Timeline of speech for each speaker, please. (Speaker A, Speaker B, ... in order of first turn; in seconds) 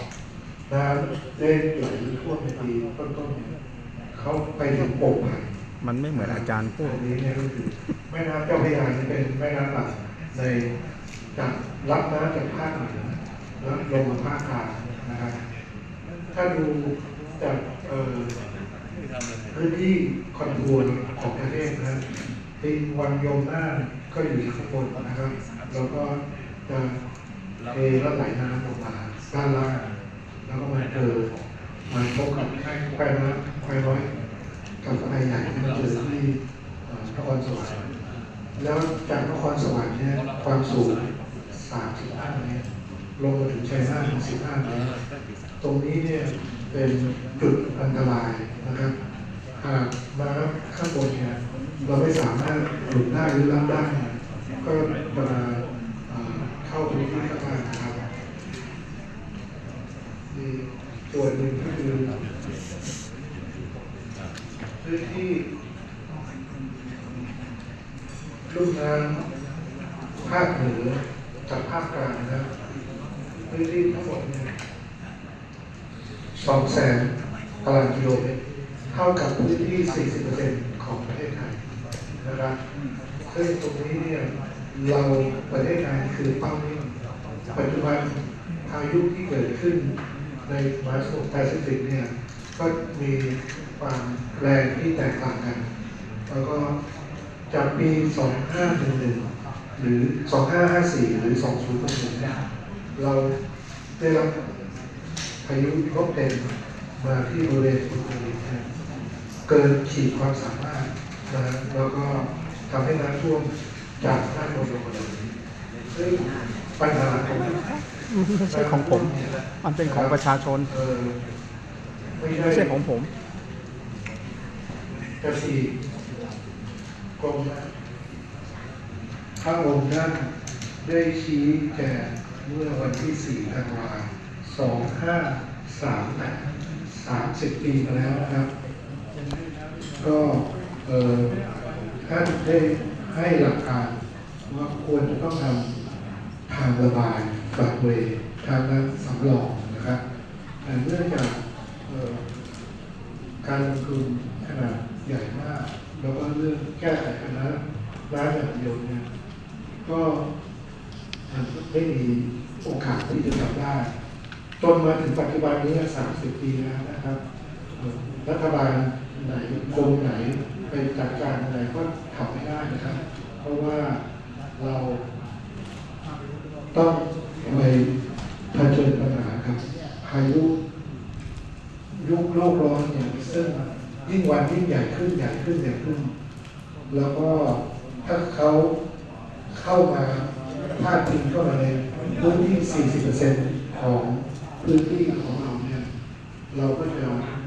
Speaker A: 0.7-3.5, 4.1-5.5, 6.1-10.7, 11.3-15.4, 16.3-18.3, 19.5-22.0, 22.6-26.9, 27.7-29.9, 30.4-31.3, 31.9-34.1, 34.8-37.7, 38.6-42.6, 43.2-44.7, 45.6-48.9, 49.6-58.0, 60.3-62.1, 64.8-65.5, 68.5-69.2, 70.2-72.5, 73.5-74.5, 76.4-77.1, 77.6-78.4, 78.9-81.5, 82.2-82.5, 83.3-86.9, 87.5-89.9, 90.5-95.6, 96.3-96.7, 97.5-99.2, 99.8-102.3, 103.0-103.3, 104.0-104.3, 105.4-108.6, 109.5-113.5, 114.0-115.2, 115.9-116.3, 116.8-117.6, 118.5-120.2, 120.7-121.2, 122.2-122.8, 125.2-125.7, 127.2-127.7, 129.4-130.3, 130.8-138.5, 140.0-141.3, 142.0-143.9, 144.5-145.7, 146.5-150.0, 150.6-152.2, 153.4-159.0, 159.8-160.2, 161.3-163.9, 164.6-167.2, 167.8-174.0, 174.6-175.0, 176.7-177.9, 178.5-180.5, 182.0-186.1, 186.9-188.7, 189.5-195.8, 196.5-197.2
Speaker B: 5.8-7.0, 117.7-119.1, 119.6-120.7, 122.5-123.1